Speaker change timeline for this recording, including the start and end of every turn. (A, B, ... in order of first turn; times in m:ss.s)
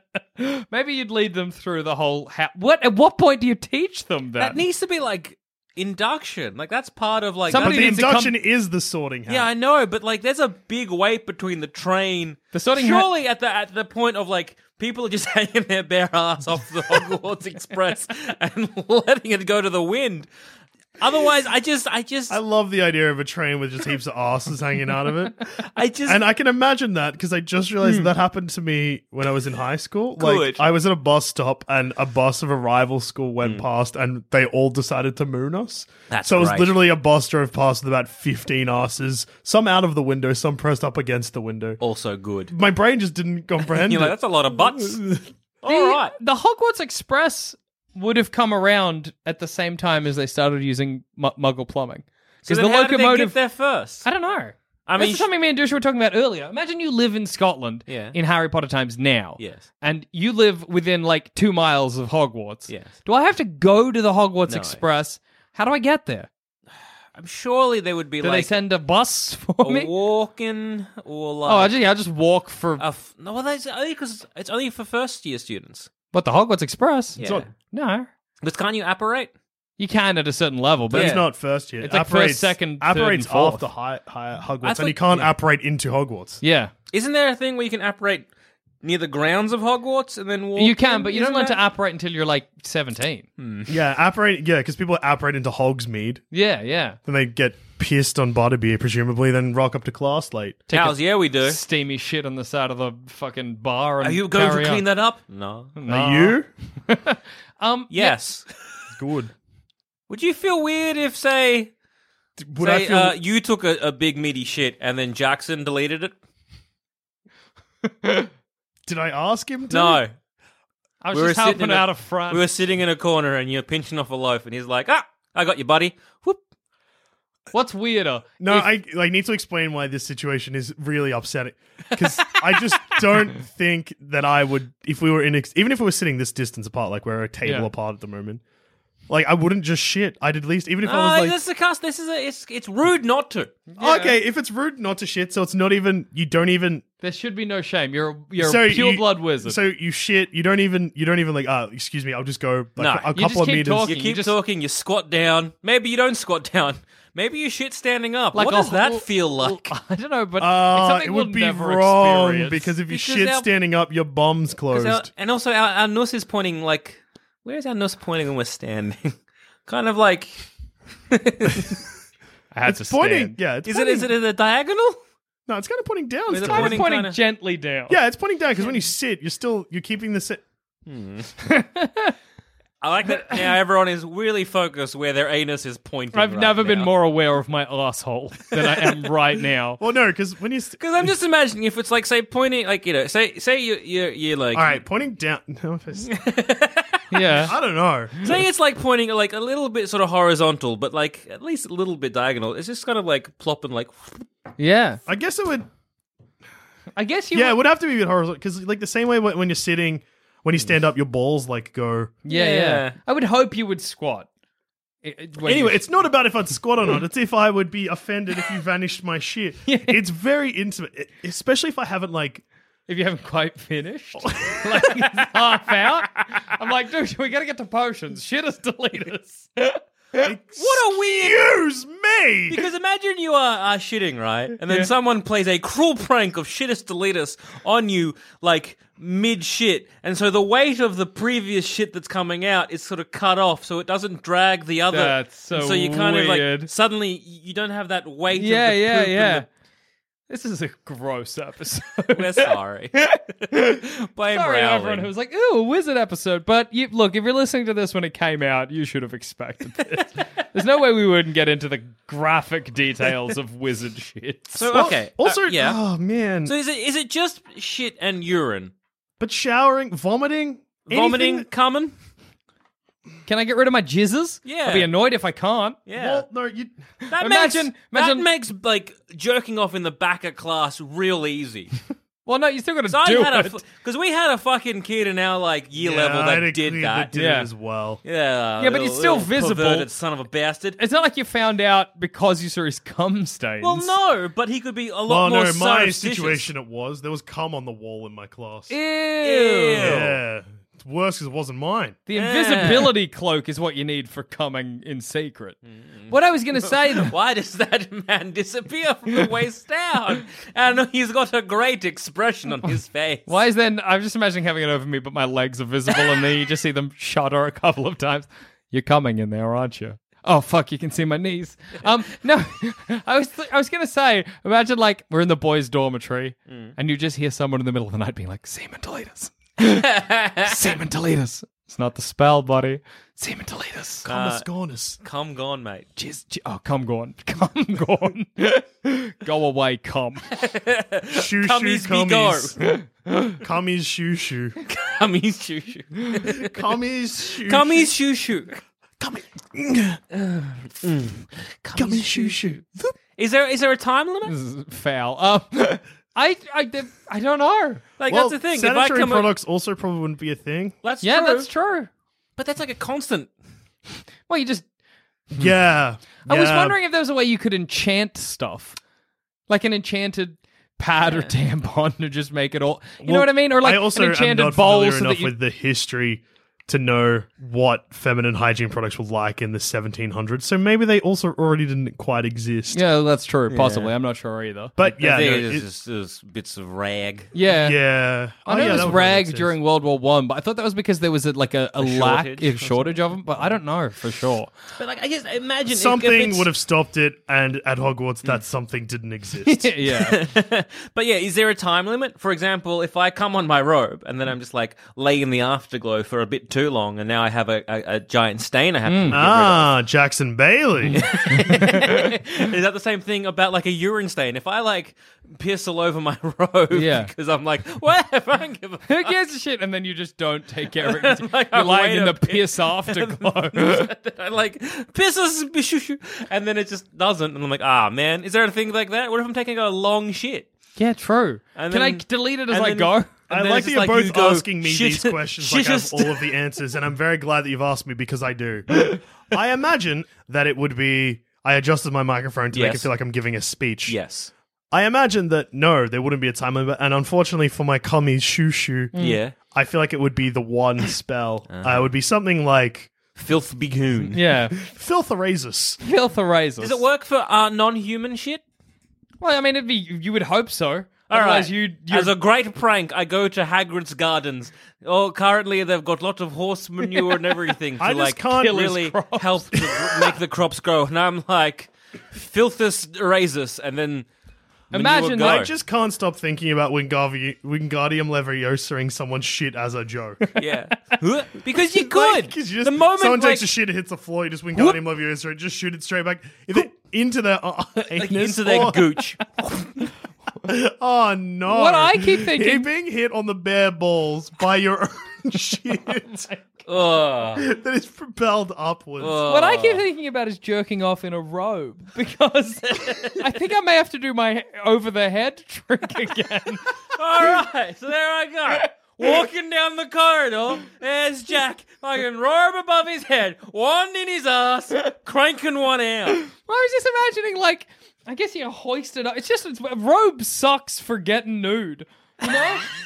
0:00.4-0:04.6 A
0:04.4-0:08.0 B
0:07.5-0:08.4 A
0:07.5-0:09.5 C
0:09.3-0:20.3 B
0:12.5-0:13.1 A
0:21.0-0:22.4 B
0:22.3-0:25.4 C
0:25.6-0:26.2 B
0:26.1-0:41.8 C
0:27.8-0:28.1 A
0:30.2-0:30.6 B
0:36.1-0:36.8 B
0:41.8-0:42.5 B
0:42.5-0:45.2 C
0:43.6-0:45.0 B
0:45.6-0:46.1 B
0:45.6-0:53.4 A
0:52.4-0:54.1 B
0:54.0-1:06.3 A
0:54.8-0:55.3 B
0:57.9-0:58.2 B
0:59.4-0:59.6 B
1:02.7-1:02.9 B
1:04.5-1:04.8 B
1:07.1-1:08.5 B
1:08.2-1:09.9 A
1:09.6-1:11.7 B
1:11.4-1:12.8 A
1:12.8-1:15.9 B
1:16.1-1:17.2 A
1:17.2-1:17.5 B
1:17.2-1:17.5 C
1:17.7-1:18.1 A
1:18.4-1:19.3 B
1:19.8-1:21.3 A
1:20.9-1:26.4 C
1:20.9-1:21.2 B
1:21.8-1:23.7 A
1:24.6-1:25.3 B
1:26.4-1:26.7 A
1:26.9-1:28.3 B
1:28.8-1:31.6 B
1:30.6-1:33.2 A
1:33.4-1:33.7 B
1:33.7-1:36.2 C
1:36.3-1:37.0 A
1:37.0-1:40.6 C
1:40.7-1:44.8 A
1:40.7-1:41.6 B
1:44.0-1:45.7 B
1:45.8-1:48.2 A
1:45.8-1:46.5 C
1:47.9-1:48.9 B
1:48.9-1:49.3 C
1:50.1-1:51.7 B
1:52.4-1:53.1 C
1:52.6-1:56.1 B
1:57.9-1:58.3 A
1:58.9-2:00.0 C
1:59.7-2:00.1 B
2:01.0-2:02.4 A
2:01.1-2:06.4 B
2:07.5-2:08.7 A
2:08.4-2:18.4 C
2:11.9-2:13.0 B
2:17.4-2:17.7 A
2:19.1-2:21.4 C
2:20.8-2:23.6 B
2:23.7-2:24.2 A
2:23.8-2:26.8 C
2:27.0-2:29.6 A
2:28.4-2:33.9 C
2:32.8-2:33.1 B
2:33.1-2:34.3 A
2:33.8-2:39.7 B
2:38.3-2:42.7 A
2:40.4-2:45.1 C
2:42.9-2:43.5 B
2:44.7-2:49.1 B
2:49.7-2:50.4 B
2:51.1-2:51.8 B
2:52.5-2:53.4 A
2:52.6-2:54.1 C
2:53.6-2:55.0 B
2:55.5-2:56.8 C
2:56.3-2:57.2 B
2:56.4-2:58.0 A
2:57.9-3:00.4 C
3:00.9-3:01.3 B
3:01.4-3:02.1 A
3:02.8-3:06.9 B
3:06.1-3:09.8 A
3:08.6-3:08.9 B
3:09.8-3:11.1 C
3:10.8-3:14.8 B
3:14.5-3:16.2 C
3:16.0-3:17.4 B
3:17.1-3:17.5 A
3:17.4-3:18.2 C
3:18.2-3:24.2 B
3:24.6-3:25.0 A
3:25.1-3:25.7 C
3:27.0-3:27.6 A
3:27.3-3:32.2 C
3:32.2-3:34.3 A
3:32.3-3:33.0 B
3:35.0-3:35.8 A
3:35.4-3:42.4 C
3:39.6-3:40.0 A
3:42.9-3:50.2 A
3:44.2-3:45.2 C
3:50.2-3:52.6 C
3:50.6-3:51.4 B
3:52.5-4:09.4 B
4:04.9-4:06.7 A
4:08.3-4:09.5 A
4:10.3-4:12.5 A
4:12.1-4:15.1 B
4:13.5-4:13.8 A
4:14.3-4:24.7 A
4:24.5-4:25.8 B
4:24.7-4:26.5 C
4:26.4-4:28.7 B
4:29.2-4:31.4 C
4:30.9-4:31.9 B
4:33.2-4:35.8 A
4:34.4-4:34.9 B
4:35.9-4:36.2 B
4:36.0-4:36.7 C
4:37.1-4:41.7 B
4:37.1-4:38.3 A
4:42.2-4:43.6 A
4:42.9-4:47.1 B
4:45.8-4:48.0 C
4:47.1-4:47.5 A
4:48.0-4:50.8 B
4:48.6-4:49.9 A
4:50.8-4:53.9 A
4:53.6-4:56.5 B
4:55.1-4:58.7 C
4:58.7-5:00.0 A
4:59.2-5:00.2 B
4:59.8-5:02.0 C
5:02.1-5:05.6 A
5:02.1-5:02.9 B
5:05.7-5:13.3 B
5:06.1-5:07.1 A
5:13.3-5:34.0 A
5:26.5-5:26.7 B
5:29.8-5:30.6 B
5:34.0-5:35.0 C
5:34.1-5:34.5 B
5:35.0-5:35.9 B
5:36.0-5:40.2 A
5:40.3-5:42.6 B
5:41.1-5:42.6 C
5:42.6-5:43.3 A
5:43.4-5:44.6 C
5:44.6-5:46.5 B
5:46.3-5:47.9 C
5:47.4-5:48.6 B
5:49.0-5:50.0 C
5:50.8-5:52.6 B
5:51.8-5:52.9 C
5:53.2-5:54.3 B
5:54.2-5:57.8 A
5:58.0-5:59.3 B
5:58.1-6:00.8 C
6:00.8-6:01.5 B
6:01.0-6:01.9 A
6:02.4-6:03.3 B
6:04.3-6:04.6 A
6:05.3-6:06.8 C
6:06.3-6:08.8 A
6:09.5-6:15.3 A
6:11.0-6:11.3 B
6:13.0-6:22.8 C
6:22.7-6:24.7 A
6:23.5-6:23.9 B
6:24.8-6:25.6 C
6:24.8-6:27.3 B
6:27.3-6:27.8 A
6:27.4-6:29.5 C
6:28.4-6:34.5 A
6:31.8-6:33.0 B
6:34.8-6:36.5 B
6:35.7-6:39.7 C
6:39.4-6:40.2 A
6:39.9-6:49.7 B
6:48.8-6:49.2 A
6:49.1-6:51.0 C
6:50.9-6:52.1 A
6:51.0-6:59.1 B
6:56.7-6:57.1 A
6:58.9-7:03.9 A
7:00.8-7:10.5 B
7:10.8-7:13.1 A
7:11.6-7:16.3 B
7:13.3-7:24.0 C
7:22.5-7:22.9 B
7:23.9-7:24.3 B
7:24.7-7:32.9 C
7:28.9-7:29.2 A
7:29.0-7:29.3 B
7:31.5-7:31.9 B
7:33.2-7:34.2 B
7:34.1-7:34.6 A
7:34.6-7:35.8 C
7:35.8-7:36.8 A
7:36.6-7:38.4 B
7:39.2-7:42.1 A
7:41.1-7:54.1 B
7:47.8-7:48.6 C
7:48.3-7:49.6 A
7:49.6-7:50.1 C
7:54.7-7:55.4 A
7:54.7-7:55.5 B
7:55.2-8:00.2 C
8:00.4-8:03.5 B
8:01.7-8:08.8 C
8:07.9-8:09.8 B
8:10.4-8:16.3 C
8:11.5-8:12.7 A
8:16.6-8:17.4 B
8:17.4-8:19.2 C
8:19.0-8:19.8 B
8:19.2-8:26.7 A
8:22.7-8:23.2 B
8:26.9-8:36.2 B
8:36.3-8:42.7 A